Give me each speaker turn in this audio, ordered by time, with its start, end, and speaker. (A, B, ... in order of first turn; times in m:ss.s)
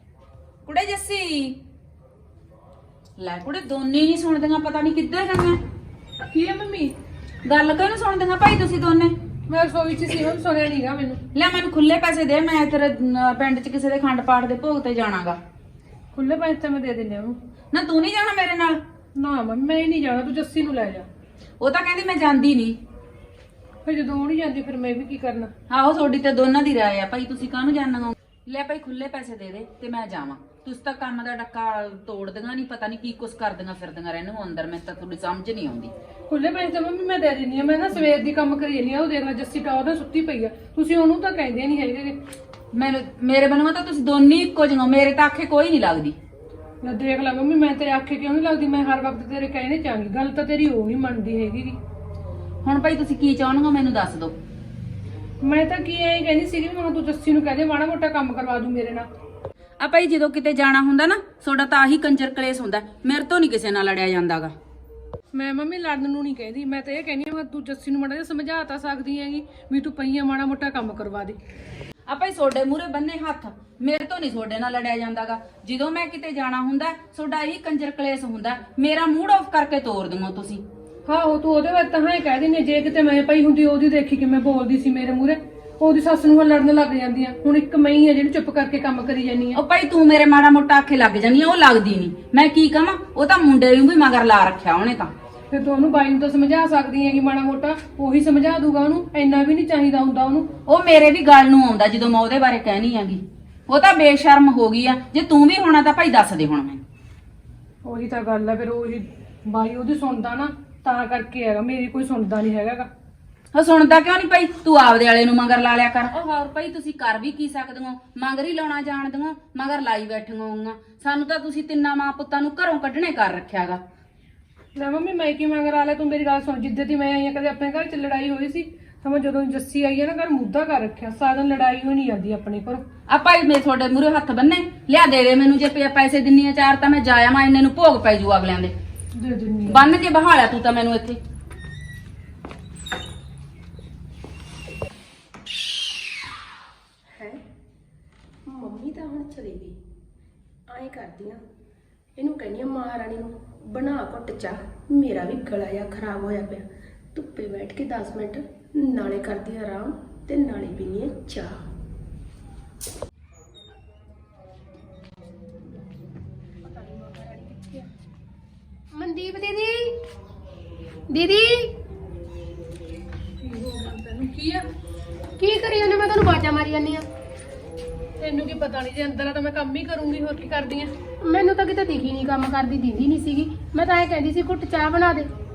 0:00.7-0:01.6 A
0:03.2-0:05.6 A
0:06.3-0:06.9 B
0:07.4-0:09.1 A
0:09.5-0:11.2 B
0:11.3-0:15.4 A
0:16.1-0:17.4 B
0:17.7-0:18.8 A
0:19.2-0:21.1 B
0:21.6-0:22.8 A
0:23.8-0:25.5 B
0:25.7-0:35.9 A
0:36.3-0:42.2 B
0:42.7-0:46.2 A
0:46.8-0:51.8 B
0:52.6-0:54.3 A
0:55.4-0:59.1 B
0:59.8-1:04.5 A
1:05.3-1:11.4 B
1:12.1-1:20.6 A
1:21.1-1:29.6 B
1:29.6-1:35.1 A
1:35.5-1:40.5 B
1:40.7-1:46.8 A
1:47.8-1:52.9 B
1:53.5-2:03.8 A
2:04.8-2:12.8 B
2:13.1-2:18.7 A
2:19.2-2:19.9 B
2:19.7-2:21.2 A
2:27.1-2:27.4 C
2:28.5-2:29.8 C
2:30.7-2:31.4 C
2:32.2-2:41.5 C
2:46.7-2:47.8 C
2:49.0-2:49.9 C
2:51.1-2:51.7 C
2:53.4-2:54.6 B
2:55.4-2:57.0 C
2:58.2-3:00.9 B
3:01.2-3:05.3 C